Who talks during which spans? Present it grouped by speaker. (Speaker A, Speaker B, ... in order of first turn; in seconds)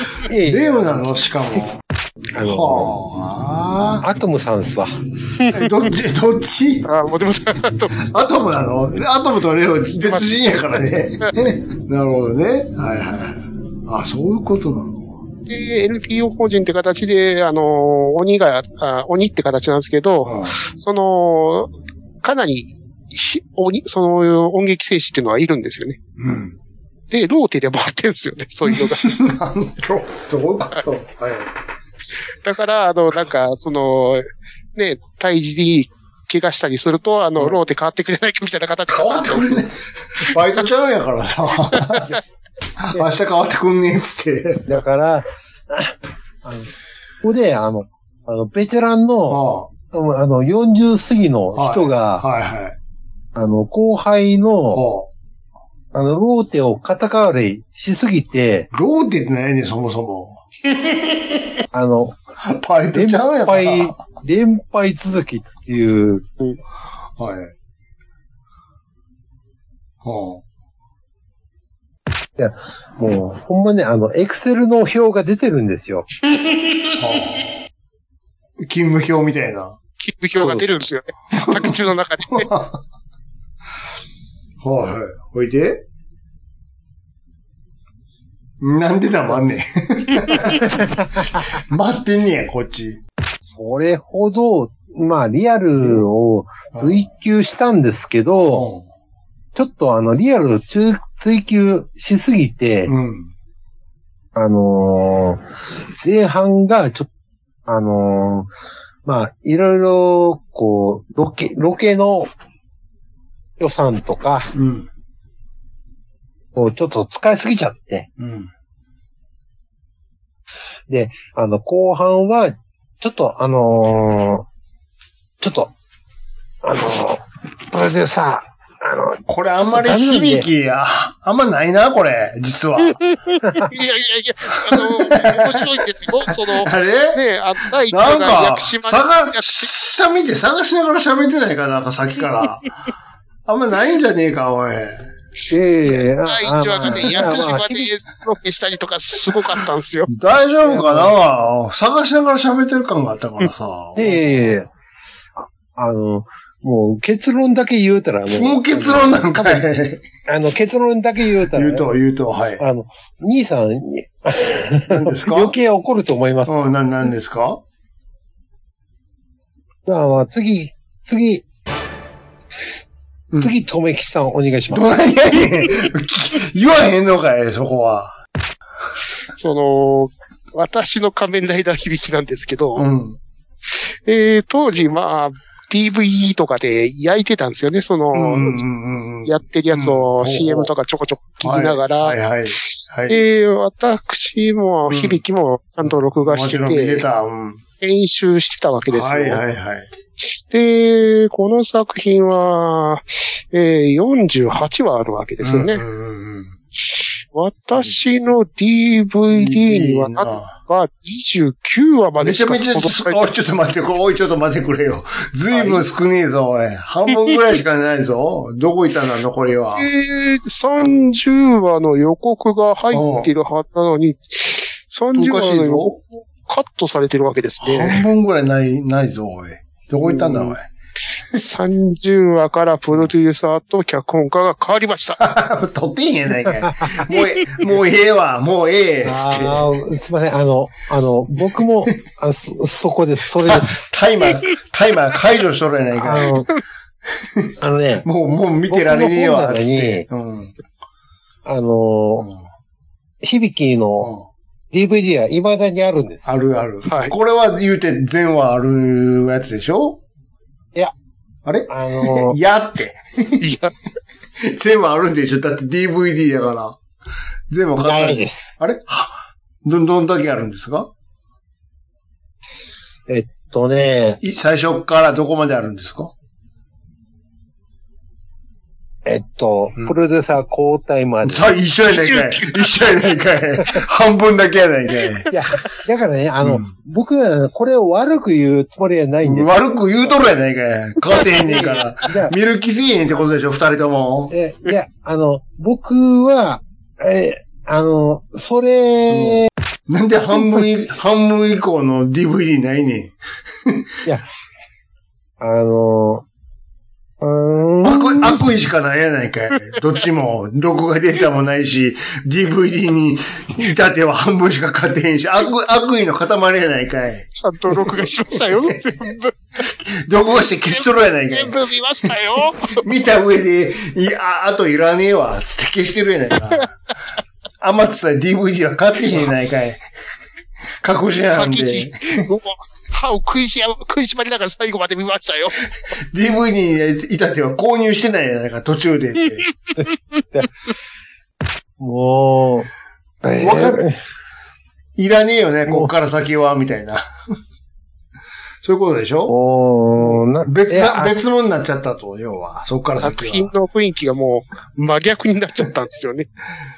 Speaker A: 0.2-1.2, 2.3-2.9, 4.0-4.9, 44.7-46.7, 47.2-52.2, 53.3-54.8, 55.9-58.7, 61.7-62.2, 62.9-66.3, 72.4-76.1, 90.6-91.2, 93.5-98.7, 99.5-102.9, 104.3-105.4, 106.0-107.1, 107.7-108.5, 109.0-112.3, 113.6-114.5, 116.5-118.1, 120.9-124.5, 125.4-125.7, 126.6-130.5, 145.5-147.9, 150.6-151.1, 153.9-154.7, 155.4-159.7, 160.3-161.9, 162.6-166.6, 169.8-171.4, 173.4-174.9, 230.2-230.5, 239.0-243.8, 245.9-246.5, 247.6-248.1, 248.7-250.0, 251.4-252.3, 253.2-254.1, 254.7-256.4, 261.7-262.4, 267.8-268.6, 273.1-274.2, 279.0-281.5, 285.3-290.2, 291.4-292.3, 294.3-299.5, 305.4-306.2, 307.2-308.4, 339.8-340.5, 341.8-342.7, 343.2-344.0, 345.7-345.9, 349.3-351.1
Speaker B: 0.5-1.8, 2.4-4.0, 5.5-6.9, 8.0-15.2, 20.2-20.6, 26.2-26.6, 28.7-31.5, 38.9-42.1, 42.8-44.8, 49.3-49.7, 51.5-52.8, 54.7-55.1, 58.7-60.4, 62.4-64.0, 67.2-67.5, 70.0-70.4, 77.0-77.4, 78.6-79.8, 81.3-81.7, 82.3-82.8, 84.6-85.8, 88.6-93.0, 96.7-97.1, 98.5-98.8, 102.8-103.3, 114.5-114.9, 118.2-118.5, 129.3-133.0, 134.7-135.7, 136.3-137.2, 137.9-142.7, 143.5-145.1, 147.1-147.4, 150.1-154.3, 158.3-160.1, 161.5-162.6, 164.9-165.6, 166.4-167.6, 174.7-178.2, 182.8-183.2, 188.1-190.7, 191.4-193.2, 194.9-195.2, 195.8-197.6, 198.9-199.9, 205.4-206.5, 209.3-210.5, 212.2-219.9, 222.9-223.3, 225.2-226.0, 227.6-230.7, 235.2-239.8, 243.4-246.3, 247.2-247.5, 248.0-250.5, 254.0-254.3, 256.2-260.0, 261.4-263.5, 264.4-266.8, 267.5-270.9, 274.2-276.1, 281.2-285.3, 286.4-286.7, 289.2-294.3, 299.1-303.8, 307.8-318.8, 319.7-321.6, 322.7-326.8, 327.6-329.8, 330.8-332.2, 336.1-339.4, 343.3-343.8, 344.9-347.0, 348.6-349.3, 350.0-353.5
Speaker C: 5.4-5.7, 6.8-8.1, 9.9-10.3, 15.5-26.0, 27.1-29.0, 32.4-39.6, 41.7-42.1, 60.8-61.2, 76.3-76.9, 80.0-82.5, 132.8-139.7, 146.2-150.1, 179.3-182.8, 183.7-188.6, 189.2-197.0, 197.8-199.4, 200.2-205.8, 206.9-213.2, 219.8-228.1, 231.3-235.2, 256.9-257.1, 263.4-263.7, 281.9-282.6, 317.4-319.4, 320.7-322.8, 331.3-335.6, 339.9-340.2, 353.0-356.3